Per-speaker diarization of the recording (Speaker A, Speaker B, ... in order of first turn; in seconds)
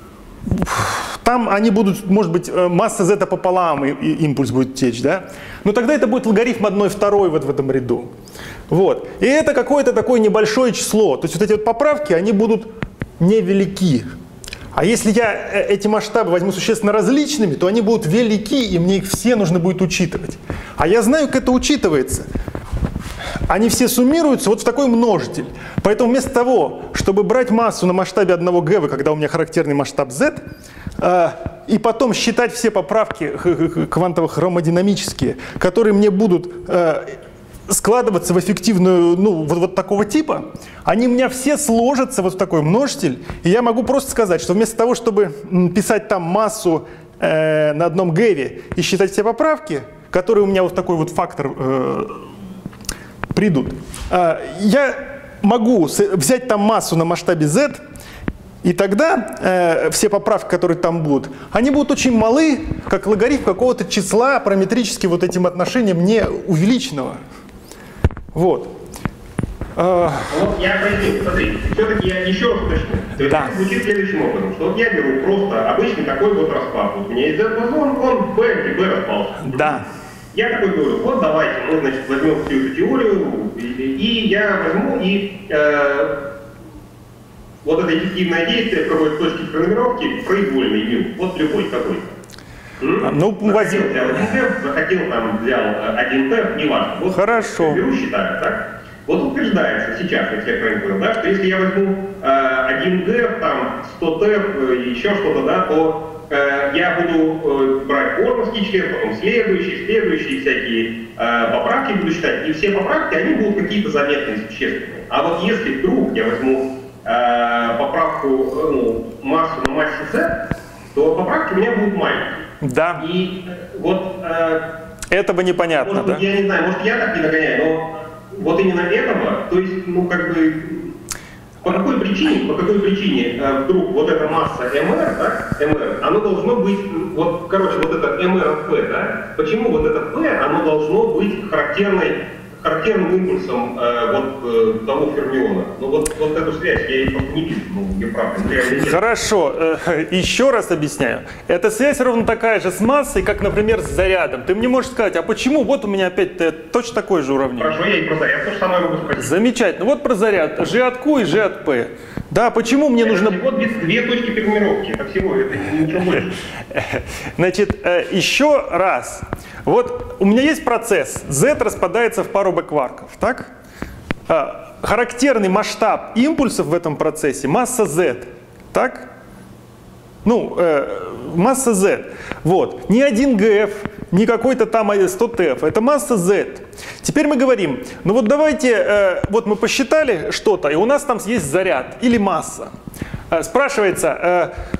Speaker A: 0.5-8.1, 8.7-14.1, 14.7-22.2, 23.5-30.4, 31.0-37.2, 37.7-52.2, 53.3-57.8, 58.6-67.2, 68.3-68.7, 69.8-70.3, 73.2-73.5, 79.4-79.8, 93.0-94.3, 97.1-97.8, 122.6-123.0, 125.1-126.2, 148.8-157.8, 159.1-163.4, 166.7-173.5, 174.3-179.1, 180.2-192.7, 193.3-194.5
Speaker B: 70.3-79.7, 80.3-86.2, 87.6-92.1, 92.8-120.4, 120.9-122.5, 123.0-124.7, 125.8-130.9, 131.6-149.0, 157.6-159.3, 163.0-166.3